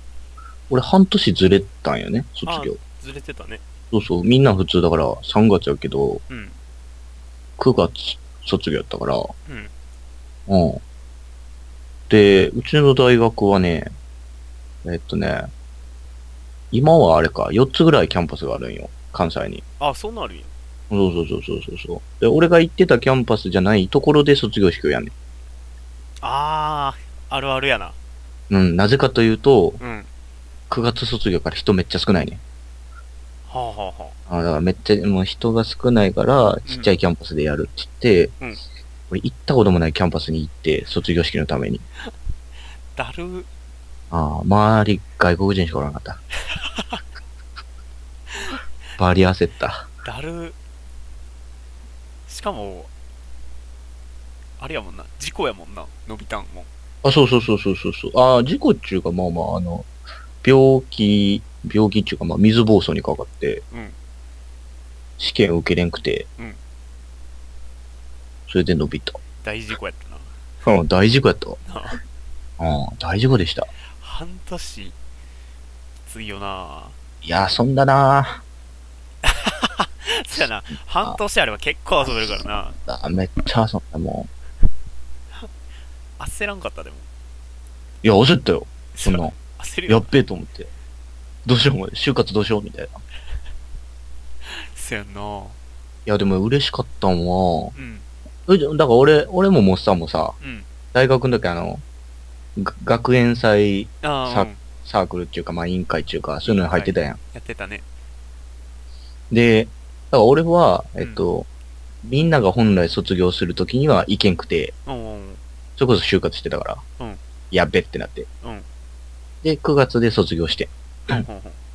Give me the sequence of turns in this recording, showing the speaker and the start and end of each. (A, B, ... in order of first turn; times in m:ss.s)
0:00.7-0:02.8 A
0:02.4-0:03.6 B
0:03.9-0:06.2 A
0:06.3-0:06.6 B
0:07.6-0:09.3 A
0:09.4-0:09.7 B
0:10.5-0:10.8 A
0:12.1-0:13.9 A
0:14.8-0:15.5 A
0:16.7-0:19.6 A
0:19.8-0:20.5 B
0:20.9-0:25.1 A
0:26.2-0:28.0 B
0:28.5-0:29.8 A
0:29.8-0:30.1 B
0:30.7-0:32.4 A
0:33.5-0:34.2 B
0:34.3-0:38.3 A
0:36.6-0:36.9 B
0:39.1-0:41.8 A
0:42.9-0:43.5 B
0:44.1-0:46.2 A
0:46.5-0:47.0 B
0:48.3-0:48.6 B
0:49.0-0:49.9 A
0:50.0-0:50.6 B
0:52.3-0:52.9 B
0:54.6-0:56.7 B
0:57.0-0:59.9 A
1:00.4-1:03.6 A
1:03.7-1:04.0 B
1:05.2-1:06.3 A
1:08.5-1:09.2 A
1:09.4-1:10.3 B
1:10.6-1:11.6 A
1:11.7-1:12.0 B
1:12.6-1:13.7 A
1:13.9-1:15.0 B
1:16.0-1:17.0 B
1:17.2-1:18.4 A
1:19.2-1:22.8 B
1:22.8-1:24.3 A
1:26.2-1:27.0 B
1:28.0-1:29.4 A
1:28.9-1:30.1 B
1:29.9-1:30.7 A
1:31.4-1:32.9 A
1:34.4-1:35.6 B
1:36.0-1:37.7 A
1:37.7-1:38.0 B
1:38.5-1:40.4 A
1:40.4-1:40.6 B
1:40.9-1:41.8 A
1:42.6-1:47.2 A
1:44.0-1:44.6 B
1:46.4-1:47.8 B
1:49.3-1:51.5 A
1:51.0-1:51.2 B
1:52.0-1:54.7 A
1:54.8-1:55.4 B
1:55.8-1:56.8 A
1:57.5-1:58.3 A
1:58.4-1:58.7 B
1:59.4-2:01.2 A
2:01.1-2:01.6 B